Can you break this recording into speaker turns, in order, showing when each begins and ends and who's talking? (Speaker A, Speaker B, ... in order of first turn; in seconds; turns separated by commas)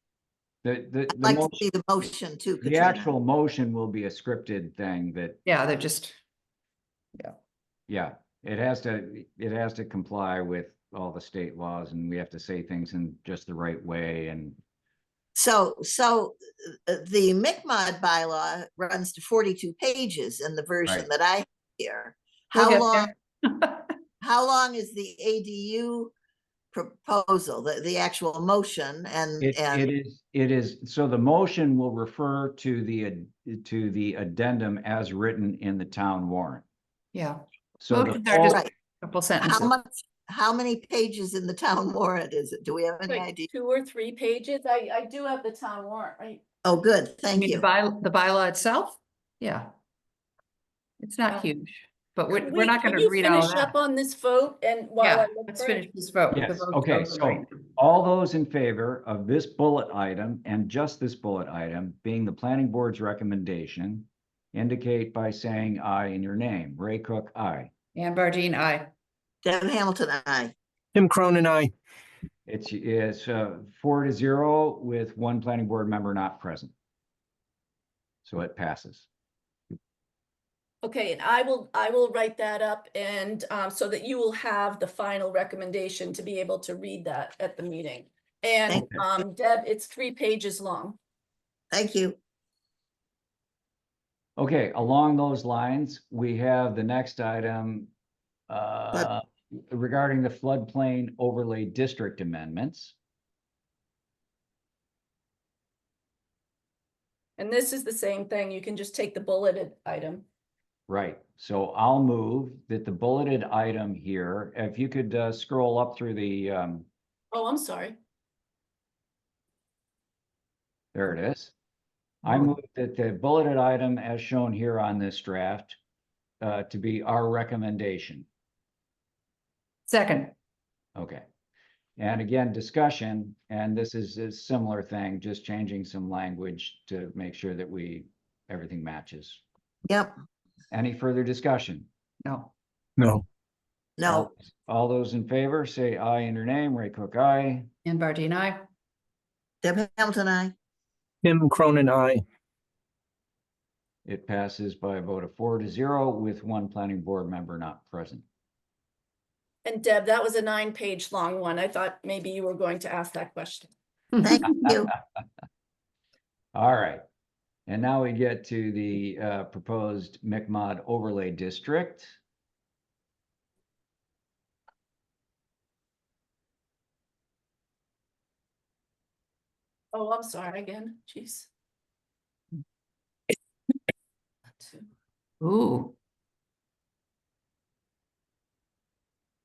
Speaker A: 0.6-1.6, Speaker B: 1.1-3.1, Speaker A: 2.6-5.4, Speaker C: 5.5-6.2, Speaker A: 7.9-14.6, Speaker B: 15.3-23.1, Speaker C: 22.6-23.9, Speaker B: 24.2-26.1, Speaker B: 26.7-29.9, Speaker A: 29.4-36.6, Speaker C: 37.1-39.7, Speaker A: 37.8-38.6, Speaker B: 38.5-38.7, Speaker B: 39.4-43.5, Speaker D: 43.1-46.4, Speaker B: 46.6-47.7, Speaker C: 47.4-49.7, Speaker C: 51.0-53.7, Speaker D: 52.3-55.8, Speaker C: 55.0-57.5, Speaker A: 56.3-67.7, Speaker C: 68.0-68.9, Speaker B: 69.4-70.5, Speaker E: 70.9-71.7, Speaker A: 72.5-76.7, Speaker A: 78.2-79.1, Speaker D: 80.8-91.0, Speaker B: 91.7-92.2, Speaker A: 94.4-97.9, Speaker A: 98.5-103.0, Speaker D: 107.4-110.2, Speaker A: 110.9-116.9, Speaker D: 117.3-118.0, Speaker A: 120.9-121.5, Speaker A: 122.2-125.8, Speaker C: 122.2-122.5, Speaker A: 126.4-128.3, Speaker C: 129.9-130.3, Speaker A: 131.0-131.2, Speaker A: 132.0-139.4, Speaker B: 139.9-140.2, Speaker A: 140.7-141.9, Speaker C: 142.2-142.5, Speaker E: 143.0-143.2, Speaker B: 144.0-144.3, Speaker A: 144.1-147.7, Speaker C: 147.8-148.7, Speaker B: 149.6-150.5, Speaker E: 151.2-152.2, Speaker A: 154.1-158.2, Speaker D: 159.7-163.7, Speaker B: 164.2-164.9, Speaker A: 166.6-167.0, Speaker A: 167.7-172.2, Speaker D: 179.9-181.5, Speaker D: 184.6-184.9, Speaker C: 185.4-185.9